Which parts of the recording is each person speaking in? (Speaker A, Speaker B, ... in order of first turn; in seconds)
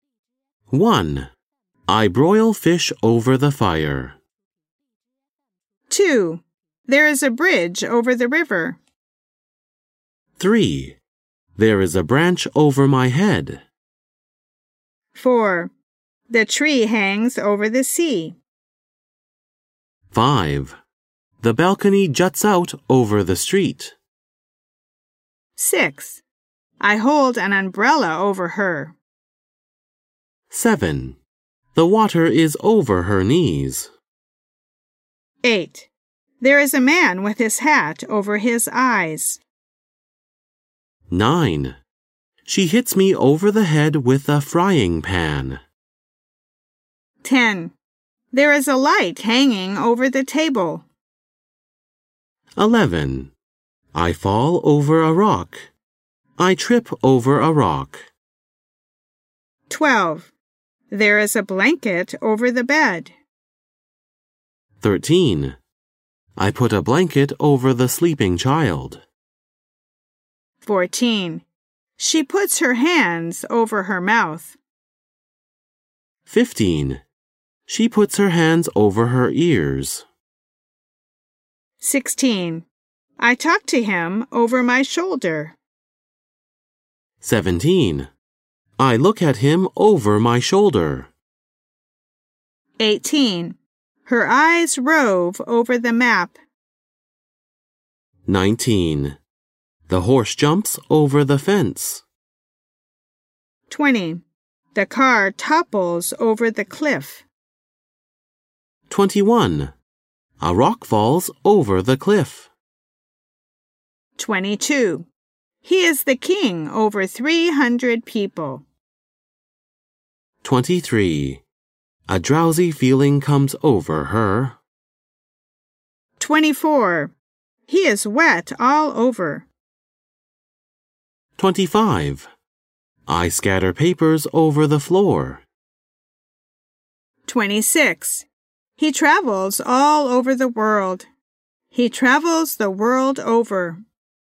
Speaker A: 0.7-1.3, 1.9-4.2, 10.4-11.0, 11.6-13.6, 20.1-20.8, 21.4-23.9, 30.5-31.2, 31.7-33.9, 41.1-41.8, 42.4-45.6, 52.6-53.3, 53.9-55.7, 56.4-58.0, 64.8-65.6, 66.4-69.0, 76.3-77.0, 77.7-80.0, 87.2-88.1, 88.8-91.1, 98.2-99.2, 99.9-102.0, 108.9-109.7, 110.4-112.5, 120.4-121.4, 122.1-124.6, 131.4-132.3, 133.1-135.4
Speaker B: 5.9-8.8, 15.1-15.7, 16.3-18.4, 25.6-26.2, 26.8-28.9, 35.4-39.4, 47.2-47.7, 48.3-50.9, 59.7-60.3, 60.9-63.1, 70.6-71.5, 72.0-74.6, 81.8-82.7, 83.2-85.6, 92.8-96.4, 103.7-107.2, 114.2-115.1, 115.6-118.6, 126.2-127.1, 127.7-129.5, 137.2-138.2, 138.8-141.1, 141.7-143.8